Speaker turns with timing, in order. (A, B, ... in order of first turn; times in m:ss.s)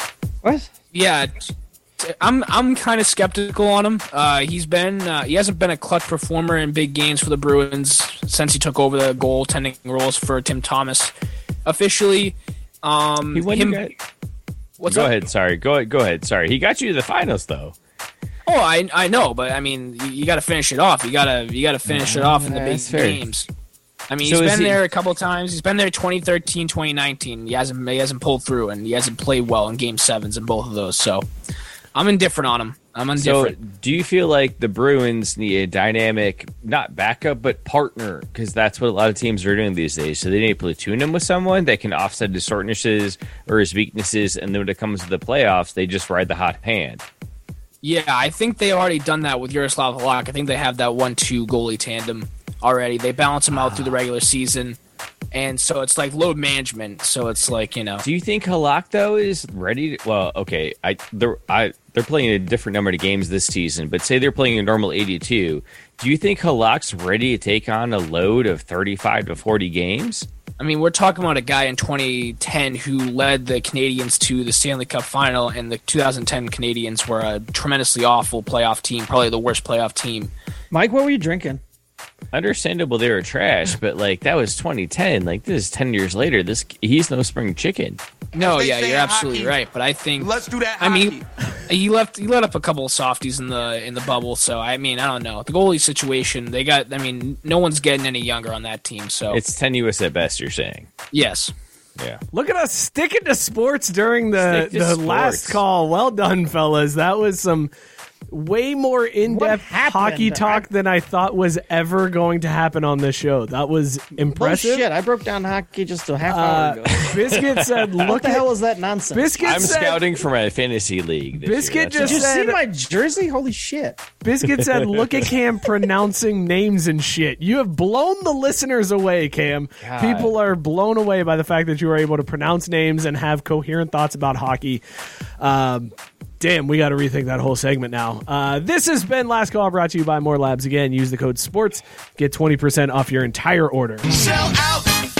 0:00.4-0:00.7 A
0:00.9-0:11.1 B
0:11.6-0:13.9 B
0:13.3-0:13.9 C
0:14.8-0:15.2 B
0:14.9-0:17.7 C
0:18.4-0:23.5 B
0:21.8-0:23.2 C
0:24.1-0:31.2 B
0:24.2-0:24.8 C
0:31.9-0:33.5 B
0:33.2-0:47.0 C
0:47.8-0:54.8 B
0:53.5-0:54.0 C
0:55.3-0:58.0 B
0:58.0-1:10.3 C
1:10.6-1:20.3 B
1:20.7-1:21.6 A
1:22.3-1:28.0 C
1:28.3-1:29.6 D
1:28.3-1:31.2 B
1:30.2-1:31.2 D
1:31.7-1:39.4 B
1:39.3-1:40.9 C
1:41.1-1:41.5 B
1:42.3-1:47.7 E
1:44.4-1:45.6 C
1:48.3-1:54.9 E
1:49.2-1:50.7 A
1:54.2-1:57.4 A
1:56.3-1:58.4 E
1:57.1-1:58.1 C
1:58.0-1:59.8 A
1:59.1-2:00.0 E
1:59.4-2:02.3 C
2:01.4-2:02.6 E
2:02.0-2:04.0 A
2:04.2-2:14.8 E
2:04.7-2:05.2 C
2:09.8-2:10.4 C
2:15.4-2:24.2 E
2:24.1-2:25.0 D